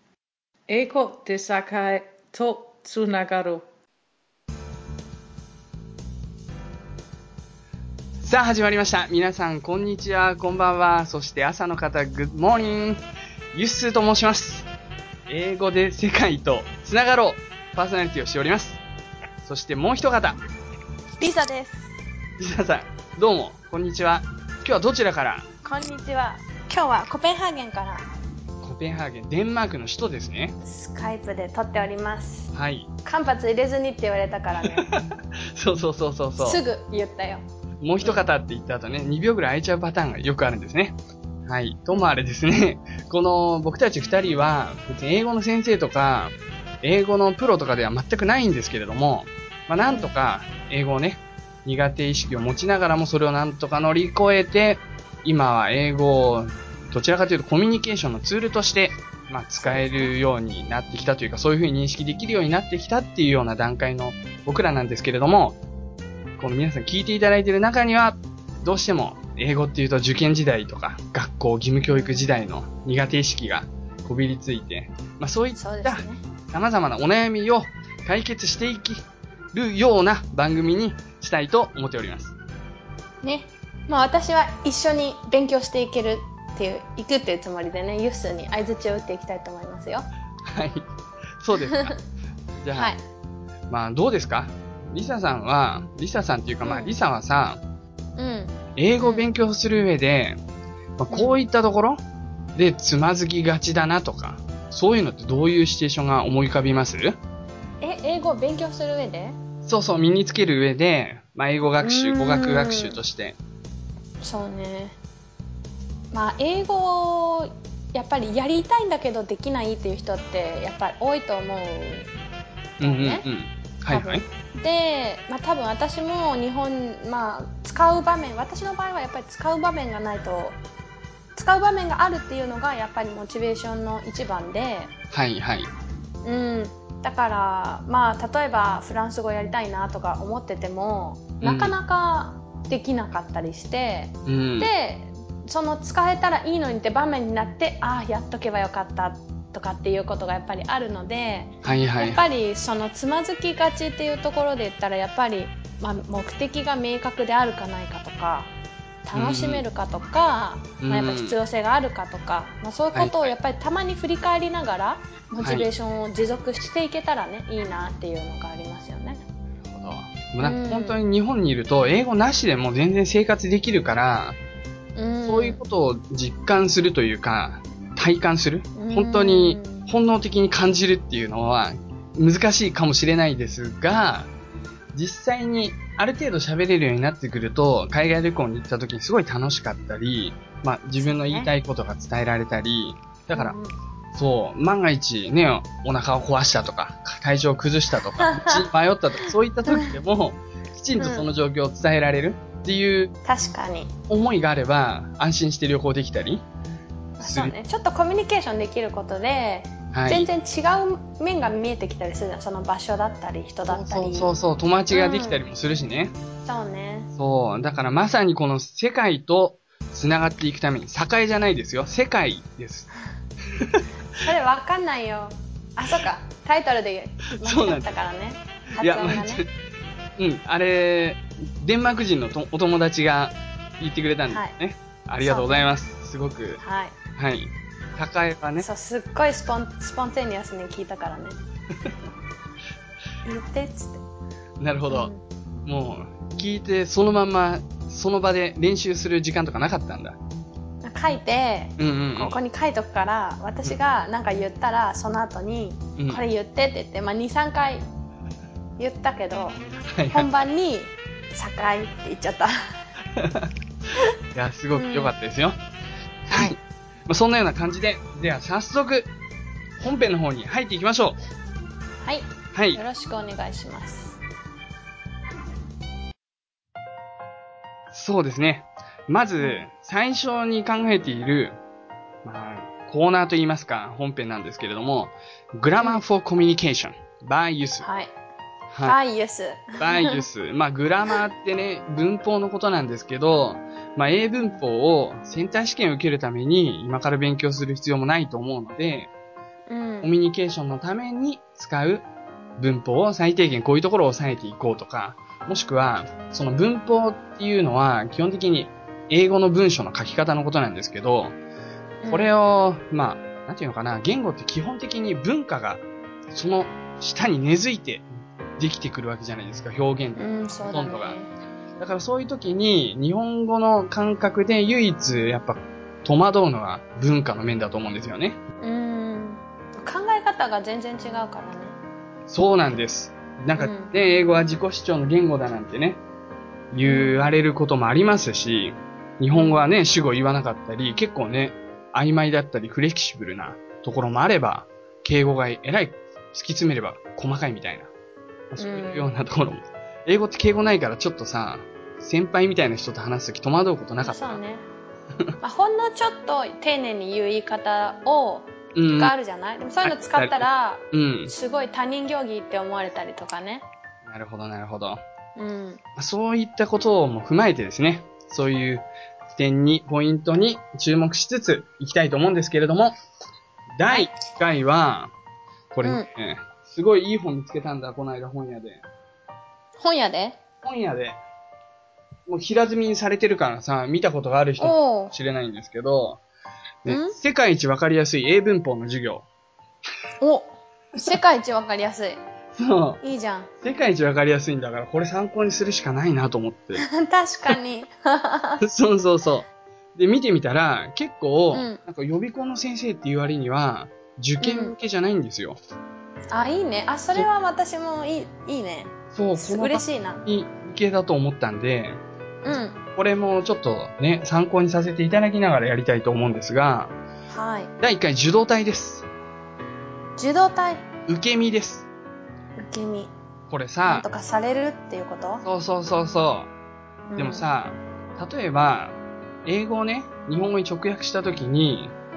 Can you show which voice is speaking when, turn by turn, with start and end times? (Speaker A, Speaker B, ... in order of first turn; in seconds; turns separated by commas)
Speaker A: 0.7-3.6, Speaker B: 8.2-13.0, Speaker B: 13.5-14.7, Speaker B: 15.3-18.8, Speaker B: 19.4-20.4, Speaker C: 21.2-21.9, Speaker B: 22.4-25.5, Speaker C: 25.6-28.1, Speaker B: 28.6-30.6, Speaker C: 30.6-32.5, Speaker B: 32.5-32.9, Speaker C: 33.0-34.9, Speaker B: 34.7-35.0, Speaker B: 35.5-36.6, Speaker C: 36.4-37.4, Speaker B: 37.8-41.0, Speaker B: 41.5-65.6, Speaker C: 49.9-50.1, Speaker C: 59.6-60.1, Speaker B: 66.4-82.3, Speaker C: 75.5-76.2, Speaker C: 83.2-90.1, Speaker B: 90.5-90.9, Speaker B: 91.4-92.0, Speaker B: 92.6-92.9, Speaker C: 92.7-93.0, Speaker B: 93.7-97.6, Speaker C: 96.6-96.9, Speaker C: 98.2-99.2, Speaker B: 98.8-100.4, Speaker B: 101.0-102.0, Speaker C: 101.1-101.4, Speaker B: 102.5-107.2, Speaker C: 107.8-109.4, Speaker B: 109.6-113.3, Speaker C: 111.8-113.0, Speaker C: 114.2-115.0, Speaker C: 116.1-122.1, Speaker B: 122.8-124.2, Speaker C: 122.8-123.2, Speaker C: 123.9-130.6, Speaker C: 131.3-134.9, Speaker B: 135.1-135.7, Speaker C: 136.2-158.5, Speaker B: 141.4-141.7, Speaker B: 144.2-144.7, Speaker B: 151.6-152.2, Speaker C: 159.0-169.2, Speaker B: 159.1-159.6, Speaker B: 160.8-161.3, Speaker B: 162.9-163.3, Speaker B: 165.4-165.7, Speaker B: 169.6-174.4, Speaker C: 170.4-171.0, Speaker C: 174.9-175.6, Speaker B: 175.2-184.3, Speaker C: 178.8-179.9, Speaker B: 184.9-193.6, Speaker C: 191.0-191.5, Speaker C: 193.3-193.7, Speaker B: 194.1-203.1, Speaker C: 198.2-198.7, Speaker C: 199.2-199.9, Speaker C: 201.0-201.3, Speaker C: 203.2-203.9, Speaker B: 204.1-206.4, Speaker C: 207.2-214.3, Speaker B: 207.2-207.5, Speaker B: 209.9-210.3, Speaker B: 213.7-216.1, Speaker C: 214.9-215.4, Speaker C: 216.4-217.1, Speaker B: 217.2-222.9, Speaker B: 223.5-223.8, Speaker C: 224.2-229.4, Speaker B: 227.4-227.9, Speaker B: 228.8-229.5, Speaker B: 230.2-236.6, Speaker C: 234.3-234.5, Speaker C: 235.2-235.7, Speaker C: 236.6-236.9, Speaker B: 237.2-238.7, Speaker C: 238.6-241.4, Speaker C: 243.2-244.0, Speaker B: 244.6-245.1, Speaker C: 244.9-245.2, Speaker B: 245.7-250.2, Speaker C: 250.8-257.8, Speaker B: 251.8-252.3, Speaker B: 256.0-256.2, Speaker C: 258.8-262.8, Speaker B: 259.9-260.3, Speaker B: 263.1-263.5, Speaker B: 264.3-265.6, Speaker C: 264.7-265.1, Speaker B: 266.3-266.6, Speaker C: 266.3-266.5, Speaker B: 267.1-269.1, Speaker B: 269.8-271.2, Speaker C: 272.0-274.2, Speaker B: 272.5-272.8, Speaker B: 277.9-281.6, Speaker B: 282.2-287.9, Speaker C: 287.8-288.1, Speaker B: 288.7-289.0, Speaker C: 288.8-290.2, Speaker B: 289.8-299.1, Speaker C: 299.7-300.1, Speaker B: 300.0-302.1, Speaker B: 302.6-311.4, Speaker C: 312.0-312.3, Speaker B: 312.1-321.2, Speaker C: 320.2-321.3, Speaker B: 321.8-328.4, Speaker C: 328.6-331.8, Speaker B: 332.3-336.0, Speaker C: 333.6-333.9, Speaker B: 336.7-347.9, Speaker C: 336.8-337.2, Speaker C: 339.3-339.6, Speaker B: 348.5-354.4, Speaker C: 348.6-349.1, Speaker C: 354.0-354.6, Speaker C: 355.4-363.6, Speaker B: 358.7-359.1, Speaker B: 359.8-361.3, Speaker B: 364.1-365.0, Speaker C: 365.4-365.8, Speaker B: 366.0-372.9, Speaker B: 373.8-375.1, Speaker B: 375.7-378.8, Speaker C: 375.8-376.1, Speaker C: 379.8-380.4, Speaker B: 380.6-381.2, Speaker B: 382.3-386.2, Speaker C: 384.6-385.1, Speaker B: 386.8-389.2, Speaker C: 386.9-387.1, Speaker C: 390.2-392.2, Speaker B: 392.5-393.0, Speaker C: 393.0-393.5, Speaker B: 393.6-396.8, Speaker C: 396.8-398.6, Speaker B: 398.6-405.6, Speaker C: 401.5-401.8, Speaker C: 404.4-404.7, Speaker C: 406.3-410.2, Speaker B: 409.1-412.0, Speaker C: 412.4-412.8, Speaker B: 412.9-416.9, Speaker C: 417.3-417.7, Speaker B: 417.8-419.1, Speaker C: 420.2-420.9, Speaker B: 421.1-421.9, Speaker C: 422.6-423.1, Speaker B: 423.5-424.1, Speaker C: 423.9-425.4, Speaker B: 425.4-426.5, Speaker C: 427.1-427.4, Speaker B: 427.2-431.9